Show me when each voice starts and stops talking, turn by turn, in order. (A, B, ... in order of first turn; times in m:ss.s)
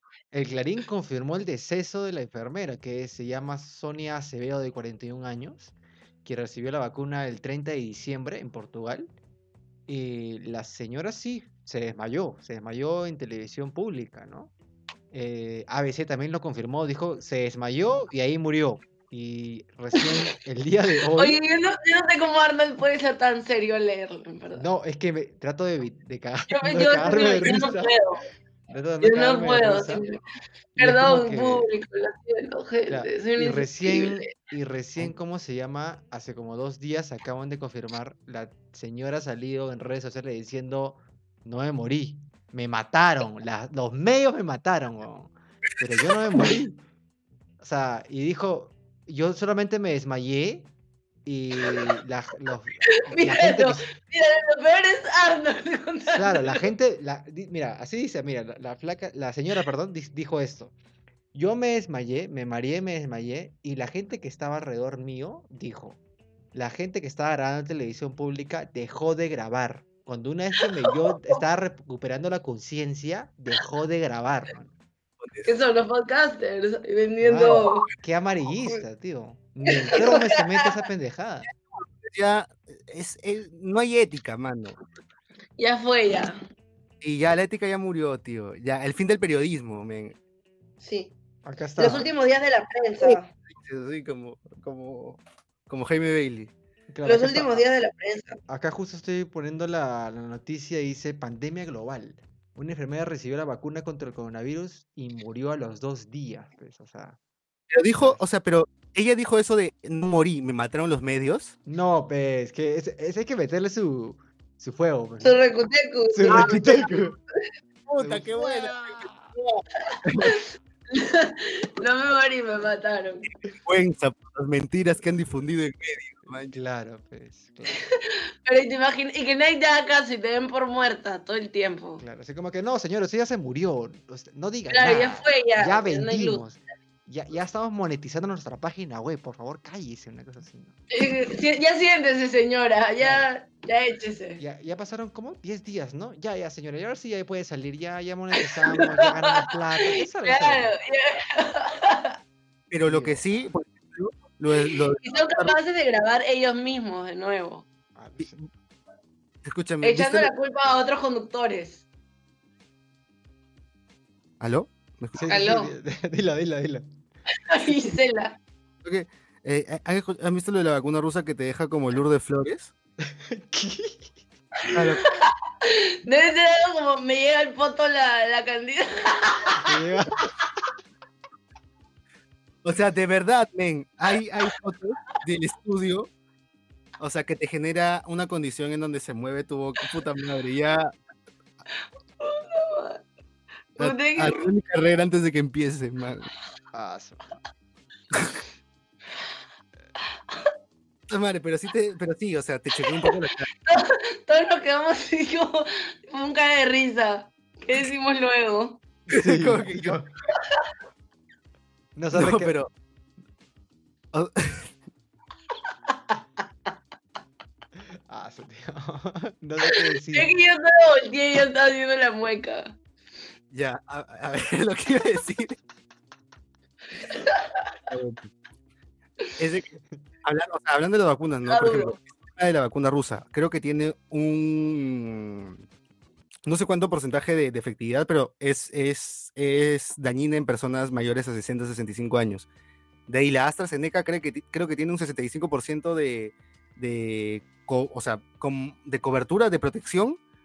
0:00.3-0:05.7 A
0:06.2-0:09.1 A
0:09.9-0:14.5 A
0:15.1-0:21.4 A
0:21.2-0:24.6 B
0:24.5-0:27.9 A
0:26.5-0:28.2 B
0:28.7-0:30.1 A
0:29.0-0:30.2 B
0:30.8-0:31.7 A
0:30.8-0:34.3 B
0:32.9-0:46.8 A
0:46.0-0:46.4 C
0:47.6-0:50.7 A
0:51.2-0:53.9 A
0:51.7-0:51.9 B
0:53.1-0:56.6 B
0:56.1-1:00.7 A
1:01.3-1:06.0 A
1:06.5-1:14.8 A
1:15.2-1:15.5 C
1:15.4-1:17.9 B
1:17.2-1:21.5 A
1:19.7-1:20.3 B
1:21.5-1:24.8 C
1:25.6-1:26.4 B
1:27.0-1:30.2 C
1:30.8-1:31.1 B
1:31.4-1:32.1 A
1:31.8-1:33.3 B
1:33.5-1:36.5 C
1:36.9-1:37.6 A
1:37.0-1:38.4 B
1:38.5-1:47.2 A
1:47.7-1:51.5 C
1:47.9-1:48.2 A
1:51.6-1:55.4 A
1:55.2-1:56.9 B
1:56.1-1:57.2 A
1:57.9-2:00.4 C
1:58.0-1:59.3 A
1:59.9-2:03.2 B
2:03.6-2:06.6 C
2:06.3-2:07.8 A
2:08.4-2:12.0 B
2:12.0-2:20.8 A
2:14.7-2:16.4 B
2:20.9-2:24.4 B
2:23.0-2:23.3 A
2:24.4-2:30.8 A
2:28.7-2:32.2 B
2:32.7-2:35.6 C
2:32.8-2:33.5 A
2:35.0-2:37.7 B
2:38.0-2:38.4 A
2:39.4-2:40.3 C
2:39.8-2:41.8 B
2:44.4-2:45.3 C
2:45.1-2:46.9 A
2:45.3-2:45.7 B
2:47.5-2:48.4 B
2:48.8-2:52.7 C
2:53.0-2:54.1 A
2:54.7-2:59.7 B
2:54.7-2:55.0 C
2:59.6-3:00.3 A
3:02.6-3:06.1 C
3:07.0-3:10.9 C
3:12.2-3:13.0 B
3:13.8-3:14.5 B
3:13.8-3:16.3 C
3:16.7-3:17.4 A
3:21.1-3:23.5 C
3:23.7-3:28.8 B
3:29.1-3:30.1 A
3:29.1-3:30.0 C
3:32.0-3:32.6 A
3:32.1-3:32.7 C
3:34.1-3:34.7 C
3:38.1-3:40.3 A
3:40.1-3:42.8 B
3:43.5-3:45.6 C
3:47.1-3:47.6 B
3:47.9-3:48.3 C
3:49.4-3:49.7 C
3:50.2-3:55.6 C
3:51.5-3:52.0 B
3:56.5-4:02.5 C
4:03.1-4:10.2 C